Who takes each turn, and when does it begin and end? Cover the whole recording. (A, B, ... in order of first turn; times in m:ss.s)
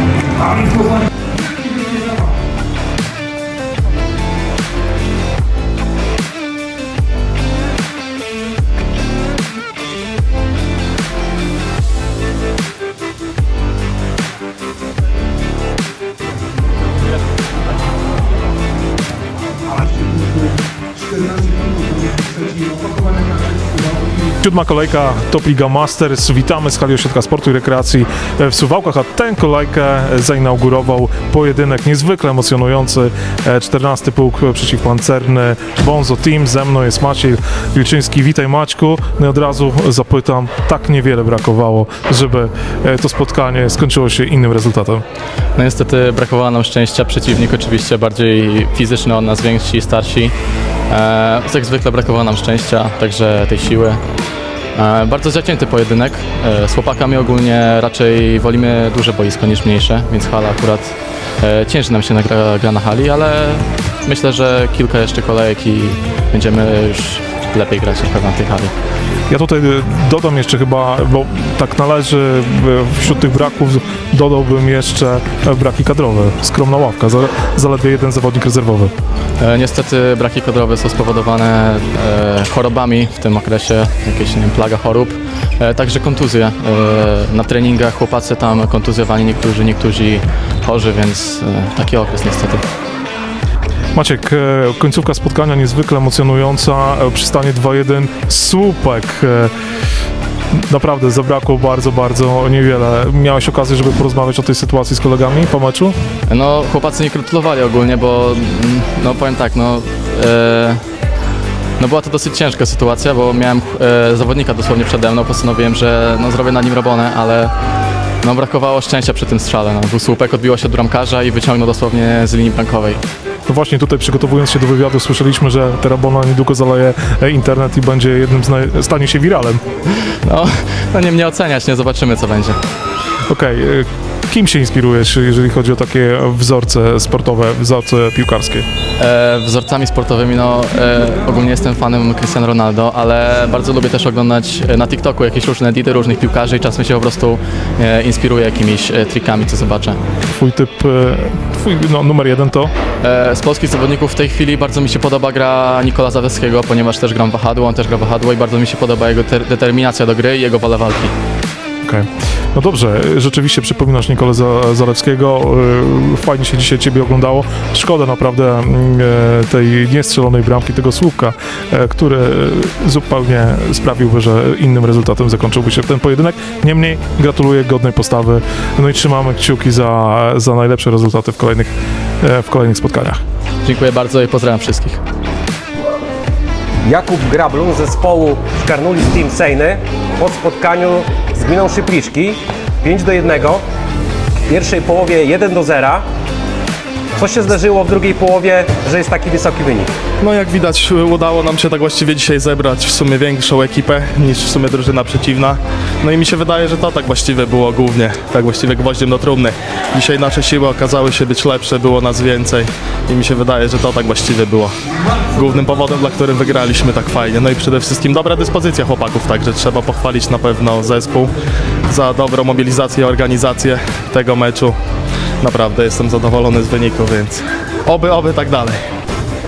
0:00.4-0:01.0 A
0:01.6-0:02.1 A
0:19.9-0:20.5 A
0:21.0-0:24.2 A
0:24.4-0:45.0 B
0:45.5-0:50.3 C
0:50.9-0:54.0 C
0:54.7-1:08.7 C
1:09.3-1:18.9 B
1:19.4-1:32.6 C
1:33.9-1:39.5 B
1:40.5-1:45.9 B
1:46.3-1:50.8 C
1:51.8-1:57.5 C
1:58.2-2:03.0 C
2:03.5-2:09.6 B
2:10.3-2:12.6 C
2:13.3-2:18.6 B
2:19.0-2:30.0 C
2:30.2-2:32.7 B
2:33.0-2:41.1 C
2:41.8-3:03.2 B
3:03.6-3:05.0 C
3:06.8-3:13.6 D
3:14.4-3:16.0 D
3:17.1-3:19.9 D
3:20.2-3:34.7 E
3:35.3-3:41.3 E
3:41.9-3:44.8 E
3:45.4-3:48.8 E